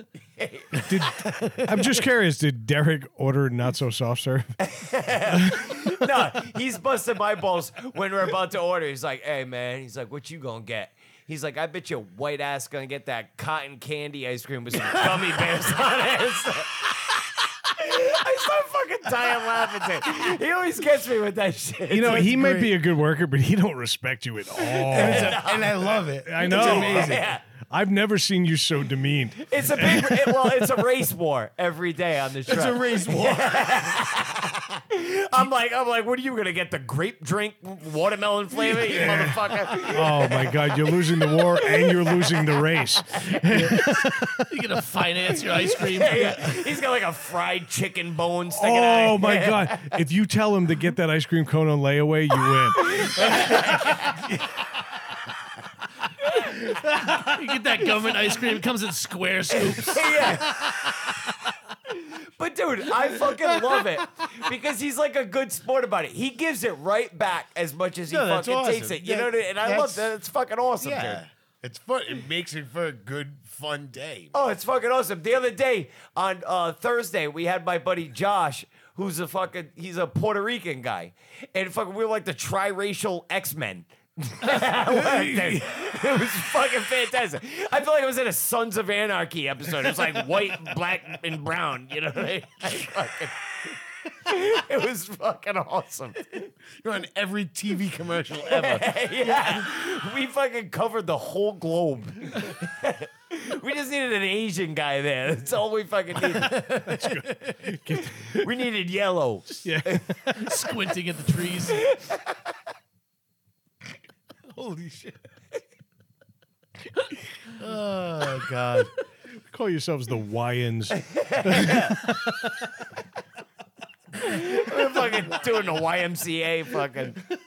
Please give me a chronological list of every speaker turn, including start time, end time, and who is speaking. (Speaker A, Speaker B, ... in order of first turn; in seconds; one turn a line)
Speaker A: 0.3-1.6
Speaker B: 0.7-1.8
Speaker C: 0.8-4.5
Speaker A: 4.6-22.4
Speaker C: 5.3-5.8
Speaker B: 14.9-15.3
Speaker C: 21.9-25.5
Speaker B: 22.1-22.7
Speaker A: 24.7-27.4
Speaker B: 24.9-27.3
Speaker C: 26.2-30.5
Speaker A: 29.4-43.4
Speaker B: 32.5-34.0
Speaker C: 38.7-44.5
Speaker B: 39.0-39.3
Speaker D: 44.5-46.6
Speaker A: 45.5-50.0
Speaker C: 48.5-53.0
Speaker A: 52.8-54.4
Speaker B: 53.2-53.6
Speaker D: 57.1-60.3
Speaker A: 59.5-60.8
Speaker B: 60.5-61.5
Speaker A: 61.9-71.2
Speaker B: 63.3-63.9
Speaker B: 68.1-70.1
Speaker B: 70.8-74.3
Speaker A: 74.3-96.5
Speaker B: 84.8-85.7
Speaker B: 96.8-99.6
Speaker A: 98.5-110.2
Speaker C: 106.3-108.5
Speaker C: 109.6-110.5
Speaker D: 110.3-111.8
Speaker A: 111.7-112.2
Speaker B: 114.5-115.2
Speaker B: 117.5-118.9
Speaker C: 119.5-122.5
Speaker A: 121.0-122.0
Speaker A: 124.1-127.2